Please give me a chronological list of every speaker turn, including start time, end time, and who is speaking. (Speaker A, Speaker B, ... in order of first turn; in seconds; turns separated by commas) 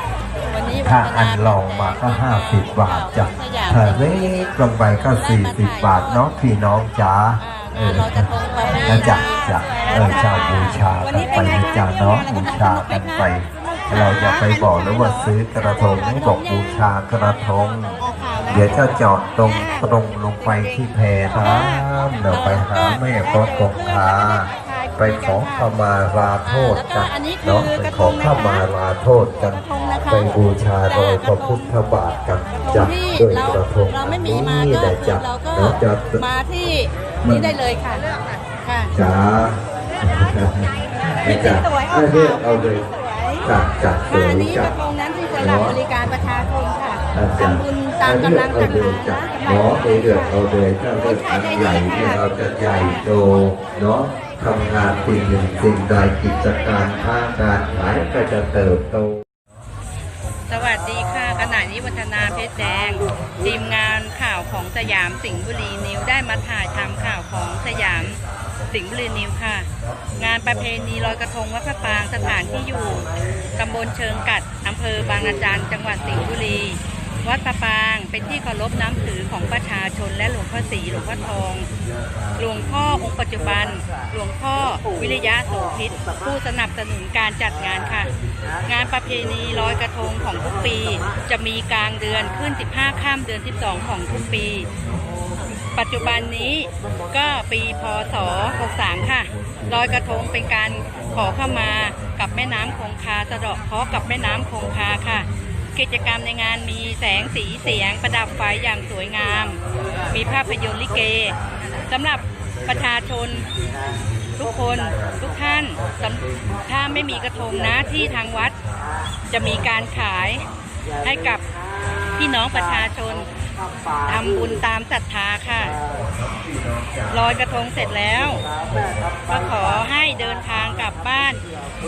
Speaker A: 0.4-4.5, Speaker B: 0.8-36.2, Speaker A: 5.2-6.3, Speaker A: 7.4-16.9, Speaker A: 18.0-25.7, Speaker A: 26.4-28.6, Speaker A: 29.5-31.7, Speaker A: 32.6-38.9, Speaker B: 37.2-37.6, Speaker B: 38.9-42.9, Speaker A: 41.2-42.4, Speaker A: 42.9-43.4, Speaker B: 43.4-44.7, Speaker A: 44.1-50.4, Speaker B: 45.4-45.8, Speaker B: 47.1-59.2, Speaker A: 51.0-52.2, Speaker A: 52.8-53.0, Speaker A: 60.5-68.2, Speaker A: 68.7-81.7, Speaker A: 82.4-88.1, Speaker A: 88.7-94.7, Speaker A: 95.7-113.5, Speaker A: 114.4-118.5, Speaker A: 119.3-120.4, Speaker A: 121.0-121.4, Speaker A: 122.2-123.3, Speaker A: 124.0-125.8, Speaker A: 127.1-128.4, Speaker A: 129.3-131.4